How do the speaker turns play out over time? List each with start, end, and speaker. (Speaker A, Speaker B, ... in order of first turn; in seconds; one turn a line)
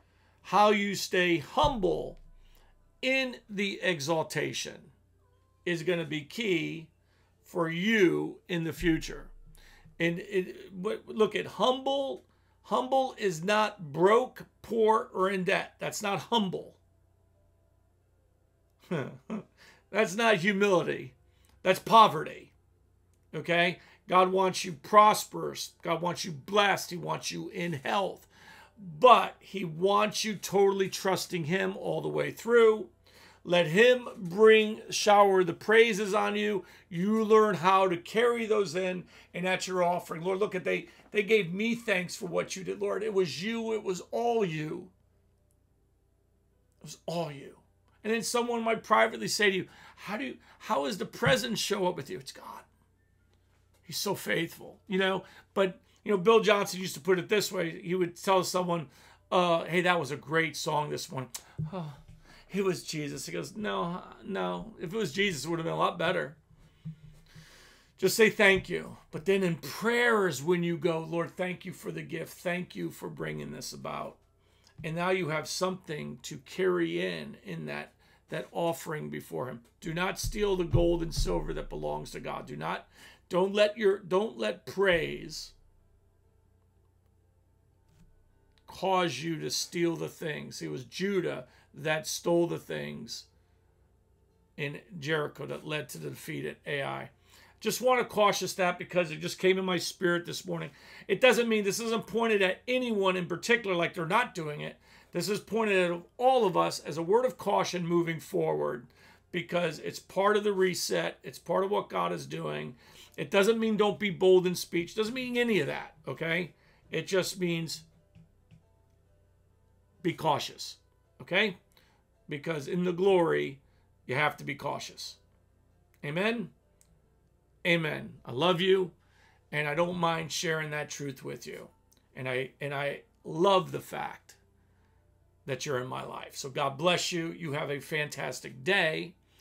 Speaker A: 0.4-2.2
Speaker A: 3.0-4.9
Speaker A: 5.6-6.9
Speaker A: 7.4-9.3
Speaker A: 10.0-16.8
Speaker A: 18.9-22.5
Speaker A: 23.3-32.9
Speaker A: 33.4-44.9
Speaker A: 46.8-52.7
Speaker A: 53.8-66.4
Speaker A: 68.0-74.2
Speaker A: 74.8-85.5
Speaker A: 88.7-93.3
Speaker A: 94.6-117.8
Speaker A: 120.0-121.6
Speaker A: 122.3-125.2
Speaker A: 126.0-126.5
Speaker A: 127.6-128.9
Speaker A: 129.5-134.4
Speaker A: 135.4-139.2